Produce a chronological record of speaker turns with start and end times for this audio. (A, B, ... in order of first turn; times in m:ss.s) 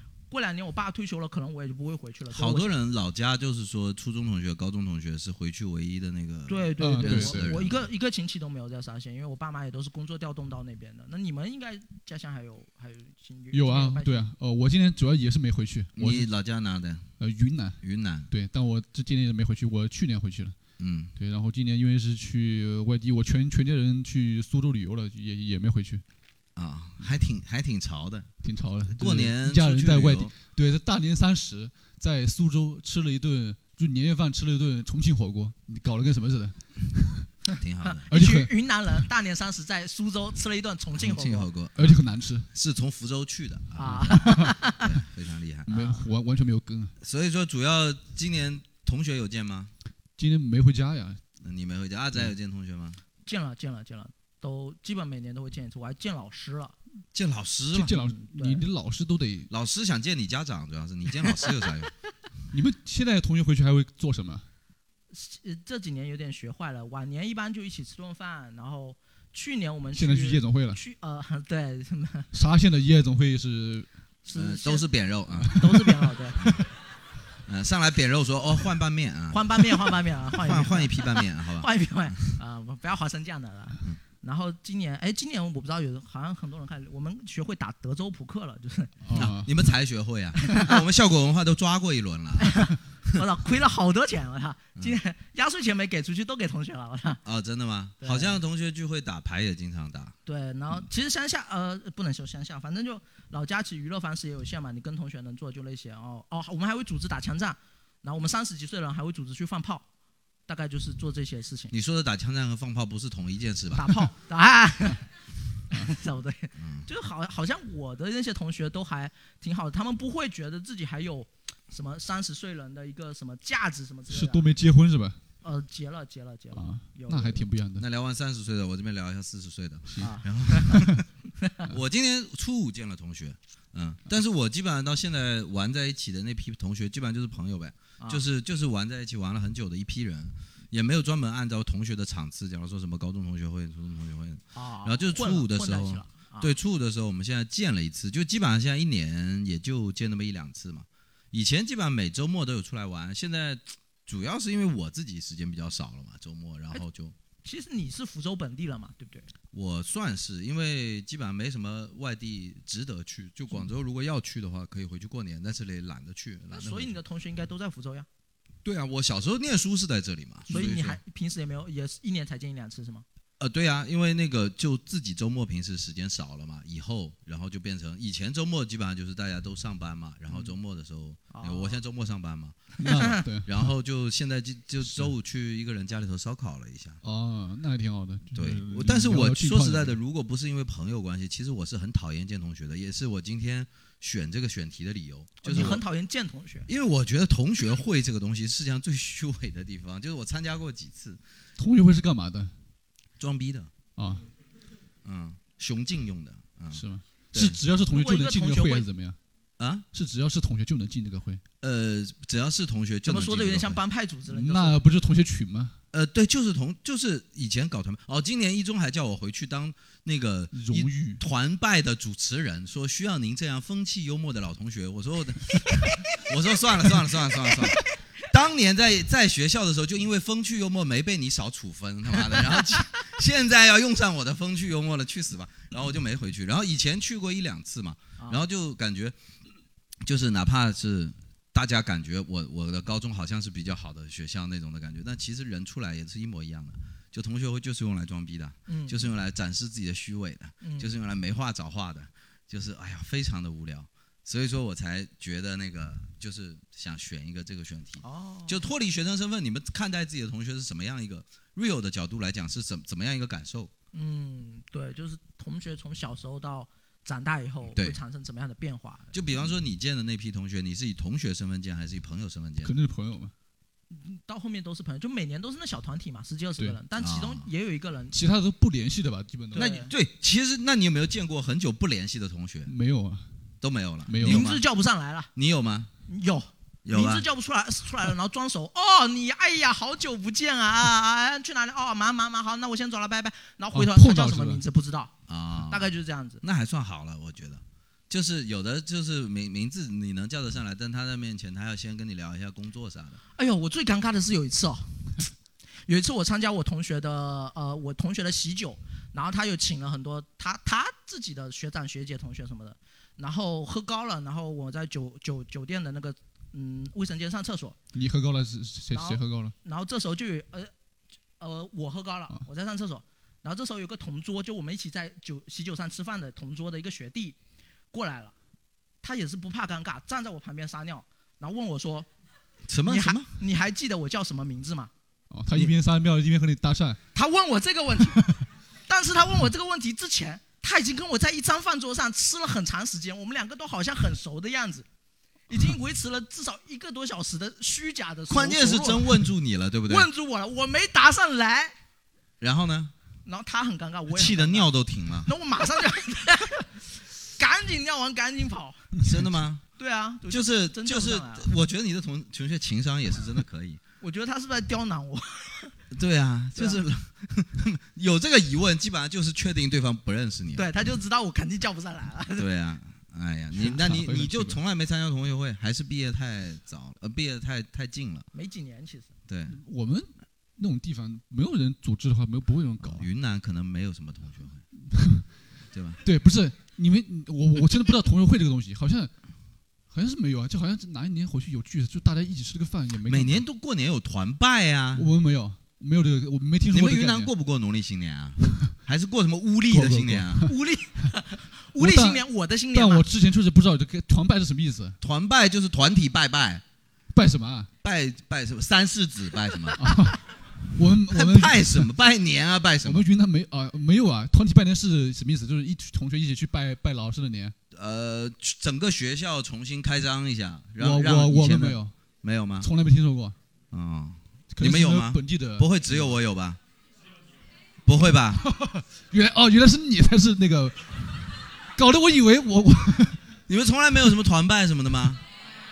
0:00.3-0:02.7 A
0:02.3-0:07.8 B
0:06.5-0:14.3 A
0:06.8-0:07.6 C
0:13.5-0:16.3 C
0:16.0-0:17.1 B
0:17.2-0:20.6 C
0:17.8-0:18.3 B
0:20.8-0:21.1 B
0:21.2-0:26.0 C
0:26.6-0:28.3 B
0:28.4-0:37.3 C
0:28.9-0:30.3 B
0:37.6-0:38.1 B
0:37.8-0:41.5 A
0:38.1-0:38.5 C
0:41.0-0:42.0 B
0:41.8-0:42.5 C
0:42.5-0:45.9 B
0:43.8-0:44.8 A
0:44.0-0:44.5 C
0:45.7-0:47.0 C
0:47.0-0:49.7 B
0:50.2-0:51.2 C
0:51.4-0:53.0 B
0:53.3-0:56.8 A
0:57.1-0:58.0 B
0:57.7-0:59.5 C
0:58.1-0:58.6 A
0:59.5-1:01.9 B
1:02.5-1:04.5 C
1:05.1-1:12.3 A
1:10.0-1:10.8 C
1:12.3-1:13.9 C
1:14.2-1:14.8 A
1:14.4-1:15.7 B
1:15.5-1:16.6 C
1:15.6-1:16.4 A
1:17.5-1:19.6 B
1:19.3-1:29.0 A
1:20.4-1:22.3 B
1:29.0-1:29.5 C
1:29.1-1:32.7 B
1:32.4-1:37.2 A
1:37.2-1:40.2 B
1:38.0-1:38.4 A
1:40.3-1:49.8 A
1:50.5-1:51.7 A
1:51.7-1:54.0 B
1:53.8-1:55.0 A
1:55.7-2:04.5 A
1:56.6-1:56.9 B
2:04.1-2:05.2 C
2:05.4-2:07.5 A
2:06.5-2:07.9 C
2:07.8-2:11.1 B
2:10.0-2:10.7 A
2:11.7-2:37.2 B
2:24.6-2:26.5 A
2:37.4-2:39.3 A
2:39.5-2:47.0 B
2:46.5-2:48.1 A
2:48.6-2:51.0 B
2:50.5-2:53.0 A
2:53.4-3:02.9 B
3:01.3-3:01.8 A
3:02.8-3:03.7 C
3:03.4-3:07.0 B
3:07.0-3:10.0 C
3:08.4-3:15.8 B
3:15.4-3:16.7 A
3:16.7-3:21.2 B
3:21.6-3:22.5 C
3:23.2-3:23.7 B
3:24.0-3:24.2 C
3:25.0-3:27.6 B
3:26.7-3:29.2 C
3:27.9-3:28.9 A
3:29.6-3:29.9 B
3:29.9-3:31.4 C
3:31.6-3:33.8 B
3:33.1-3:34.8 A
3:34.3-3:35.8 C
3:35.9-3:59.2 B
3:40.5-3:41.2 C
4:00.0-4:23.7 B
4:08.7-4:09.0 A
4:10.6-4:10.9 A
4:18.0-4:18.6 A
4:23.9-4:29.2 A
4:27.7-4:28.0 B
4:29.1-4:32.7 B
4:32.6-4:33.3 C
4:33.9-4:38.2 A
4:37.0-4:37.5 B
4:38.1-4:39.7 C
4:39.5-4:42.7 B
4:39.6-4:39.9 A
4:42.7-4:43.3 C
4:43.6-4:44.6 B
4:44.1-4:44.6 C
4:44.2-4:45.3 A
4:45.4-4:45.9 B
4:46.1-4:56.4 A
4:46.8-4:47.3 B
4:53.7-4:54.6 C
4:55.3-5:03.2 B
5:03.4-5:04.9 A
5:05.9-5:17.8 A
5:17.9-5:19.5 C
5:18.9-5:20.7 A
5:21.4-5:27.4 A
5:27.9-5:28.3 A
5:29.0-5:32.1 A
5:32.7-5:33.3 B
5:32.9-5:34.9 A
5:35.3-5:37.0 C
5:37.2-5:44.9 A
5:45.5-5:49.2 A
5:48.3-5:50.1 B
5:49.9-5:51.7 A
5:52.4-5:52.9 B
5:53.2-5:54.7 A
5:54.1-5:55.3 B
5:55.2-5:56.7 A
5:57.4-5:58.9 A
5:59.0-5:59.6 B
5:59.8-6:01.5 A
6:00.3-6:03.8 B
6:04.0-6:05.7 A
6:05.9-6:10.7 B
6:06.6-6:06.8 A
6:10.6-6:12.5 A
6:12.4-6:18.3 B
6:13.6-6:14.6 C
6:18.3-6:19.1 A
6:19.3-6:19.6 B
6:19.5-6:23.1 C
6:22.8-6:24.6 B
6:24.8-6:25.3 C
6:25.7-6:26.0 B
6:26.0-6:29.1 C
6:29.9-6:33.4 C
6:33.0-6:35.1 B
6:35.0-6:37.3 C
6:36.7-6:40.5 B
6:39.7-6:40.5 C
6:40.5-6:43.0 A
6:41.8-6:45.0 C
6:45.0-6:46.6 B
6:47.1-6:47.7 C
6:47.8-6:49.9 B
6:49.8-6:50.2 C
6:50.8-6:51.9 C
6:51.1-6:53.0 B
6:52.8-6:57.6 C
6:57.7-7:02.7 B
7:00.8-7:01.9 C
7:02.6-7:03.4 C
7:03.7-7:06.6 B
7:04.5-7:05.7 C
7:07.9-7:08.5 B
7:08.5-7:11.2 C
7:11.8-7:13.2 C
7:13.5-7:15.2 B